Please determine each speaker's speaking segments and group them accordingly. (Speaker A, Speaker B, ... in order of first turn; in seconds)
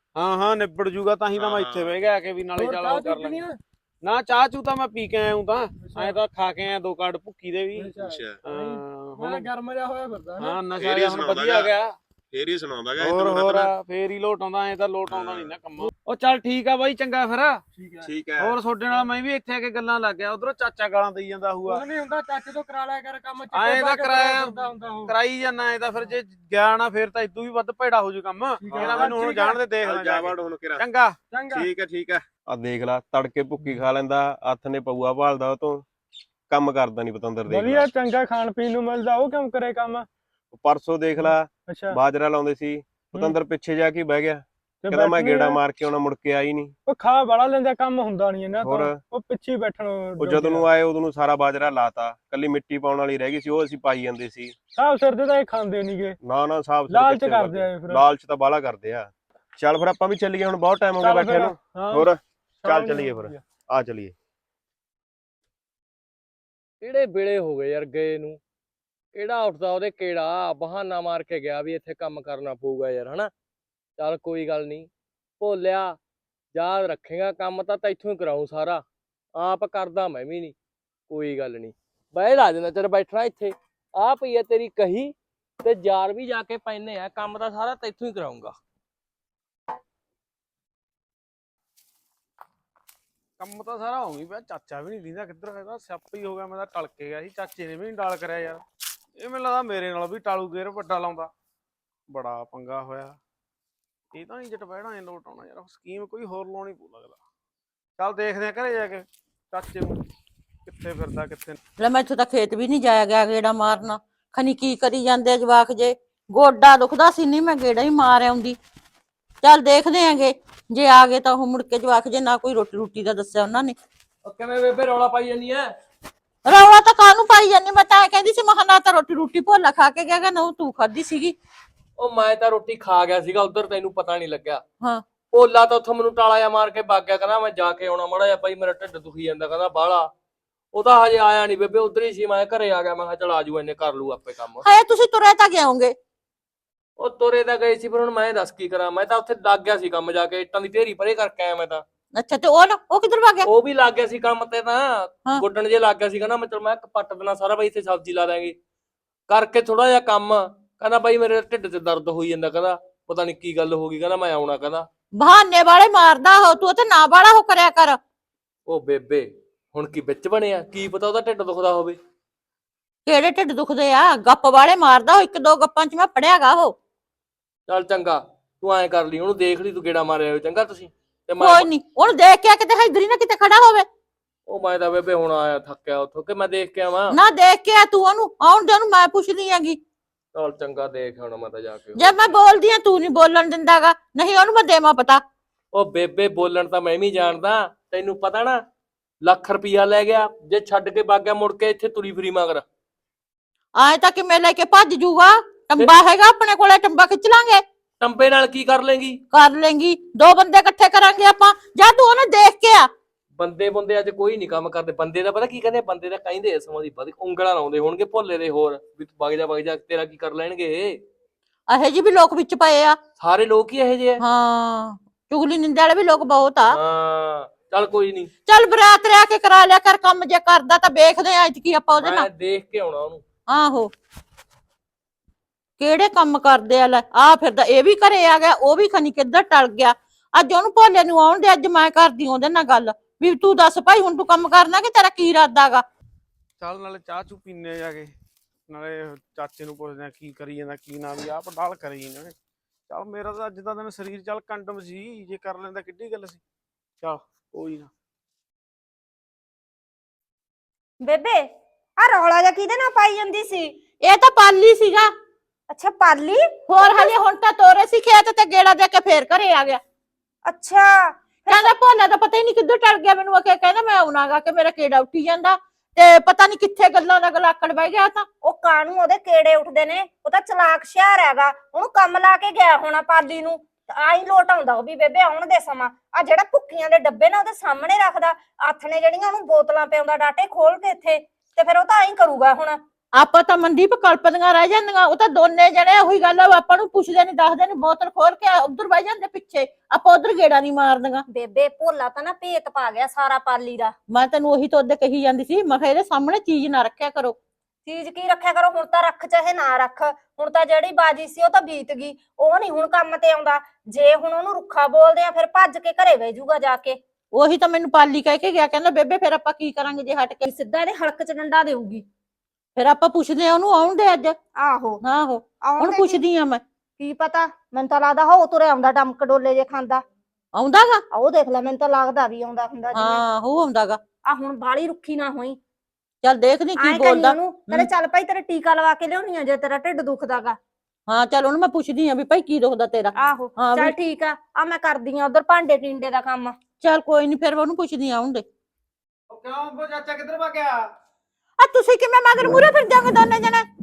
Speaker A: 0.1-3.4, 4.0-7.9, 8.4-9.5, 10.4-11.9, 13.0-17.6, 18.4-21.8, 23.5-31.2, 93.4-98.6, 99.2-101.3, 102.1-103.2, 104.1-107.2, 108.0-110.0, 110.6-111.6, 246.6-248.1, 248.7-252.3, 252.9-256.4, 257.0-257.9, 349.3-350.9
Speaker B: 1.4-1.9, 8.0-8.4, 10.8-11.7, 12.3-13.7, 15.1-15.5, 18.0-18.6, 28.7-29.2, 29.8-30.8, 31.5-35.8, 36.5-37.9, 40.5-46.7, 48.6-49.0, 50.2-54.5, 56.2-64.1
Speaker C: 2.5-3.6, 5.8-6.2, 7.7-10.6, 17.7-18.1, 21.6-25.1, 28.6-29.6, 31.3-31.7, 37.5-40.1, 41.2-42.0, 44.8-45.6, 46.9-50.6, 54.8-56.2, 56.9-58.0, 61.0-62.1, 62.6-63.4
Speaker D: 66.8-68.4, 69.1-73.3, 74.0-74.9, 75.4-76.0, 76.5-78.8, 79.4-80.5, 81.1-88.5, 124.2-125.7, 132.0-134.6, 135.3-140.1, 140.7-144.6, 147.0-151.8, 153.4-158.5, 159.3-164.9, 168.7-172.0, 177.7-181.7, 184.5-187.2, 190.3-192.3, 195.7-198.6, 199.2-202.6, 208.0-209.2, 213.3-221.0, 223.2-224.2, 226.7-228.3, 232.0-233.2
Speaker E: 111.8-118.6, 119.4-123.8, 126.5-131.3, 144.6-145.9, 152.1-153.5, 165.2-168.0, 173.1-176.8, 181.4-183.8, 187.1-189.8, 191.9-195.2, 203.8-207.6, 209.3-212.9, 221.7-223.0, 224.2-226.8, 228.4-232.3, 233.5-233.9, 235.8-245.8, 264.0-265.1, 266.7-269.8, 271.5-278.3, 293.1-301.2, 304.1-307.4, 317.3-320.4, 322.8-324.4, 325.0-326.6, 330.5-331.0, 332.9-334.0, 336.2-337.9, 341.1-343.9, 346.8-348.4, 351.6-353.6
Speaker F: 261.0-261.4, 262.0-263.7, 265.7-267.1, 270.4-271.7, 278.4-292.8, 301.3-303.9, 307.9-317.0, 320.4-322.0, 324.6-325.0, 325.6-326.2, 327.0-330.0, 331.1-333.2, 334.3-335.6, 336.8-340.6, 343.1-346.6